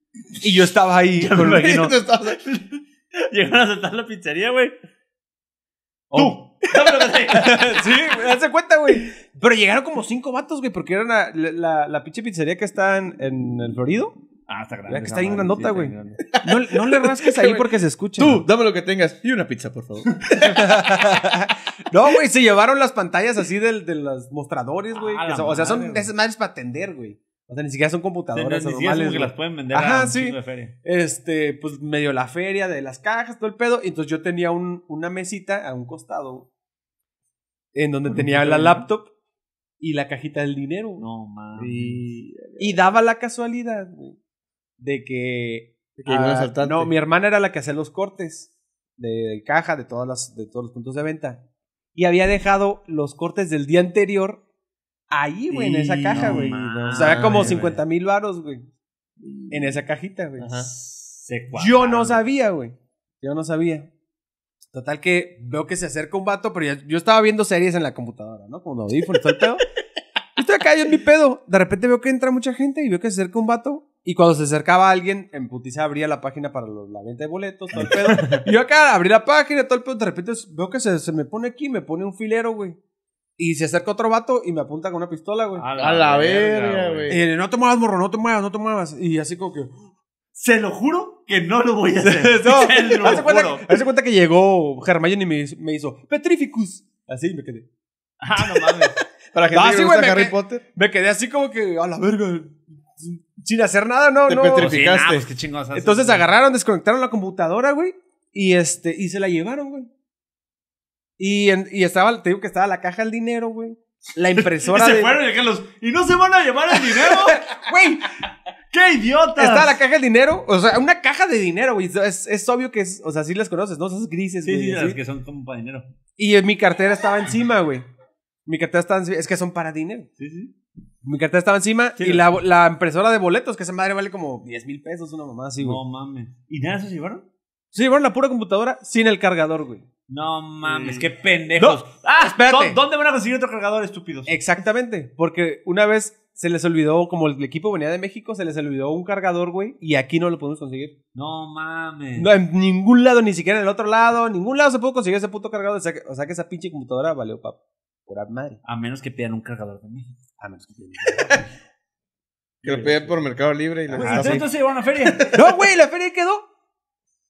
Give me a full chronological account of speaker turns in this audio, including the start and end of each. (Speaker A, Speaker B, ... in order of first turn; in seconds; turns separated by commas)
Speaker A: 0.4-1.7, Speaker B: 1.2-4.7, Speaker C: 1.4-2.4, Speaker A: 6.1-6.4, Speaker B: 6.1-7.8, Speaker A: 7.3-14.1, Speaker B: 14.5-16.2, Speaker A: 14.9-18.4, Speaker C: 16.3-20.8, Speaker A: 20.4-36.5, Speaker B: 24.9-26.1, Speaker B: 28.3-30.7, Speaker A: 37.7-39.1, Speaker B: 38.1-38.9, Speaker A: 39.8-41.0, Speaker B: 41.0-42.0, Speaker C: 41.6-42.8, Speaker A: 42.6-44.2, Speaker A: 44.8-51.4, Speaker C: 46.0-46.9, Speaker A: 51.9-54.4, Speaker A: 55.1-58.7, Speaker B: 55.5-57.8, Speaker C: 55.8-57.5, Speaker C: 59.2-59.8, Speaker A: 59.5-60.7, Speaker C: 60.4-60.7, Speaker B: 60.8-62.2, Speaker A: 61.5-63.9, Speaker A: 64.7-69.6, Speaker A: 70.4-82.8, Speaker B: 77.7-78.5, Speaker A: 83.4-85.6, Speaker B: 85.5-87.1, Speaker C: 85.8-87.2, Speaker A: 87.1-89.8, Speaker B: 90.3-93.6, Speaker A: 92.0-97.7, Speaker B: 98.2-99.0, Speaker A: 98.4-98.8, Speaker C: 99.3-100.6, Speaker A: 99.5-104.7, Speaker C: 104.3-105.2, Speaker B: 104.5-106.3, Speaker A: 105.7-109.9, Speaker A: 111.2-115.2, Speaker B: 114.4-117.5, Speaker A: 116.8-118.1, Speaker B: 118.7-119.8, Speaker A: 119.4-125.0, Speaker B: 124.4-125.9, Speaker A: 126.2-127.8, Speaker A: 128.4-130.1, Speaker B: 130.2-130.5, Speaker A: 131.0-135.8, Speaker B: 132.0-132.3, Speaker B: 135.6-137.2, Speaker A: 137.7-139.8, Speaker B: 140.1-144.3, Speaker C: 140.6-141.1, Speaker A: 141.6-142.8, Speaker A: 144.3-150.9, Speaker B: 151.1-152.3, Speaker A: 152.2-158.6, Speaker B: 158.6-160.2, Speaker A: 160.4-161.4, Speaker B: 162.6-163.1, Speaker C: 162.6-164.5, Speaker A: 163.9-164.4, Speaker B: 163.9-165.3, Speaker C: 165.0-165.4, Speaker A: 165.3-166.4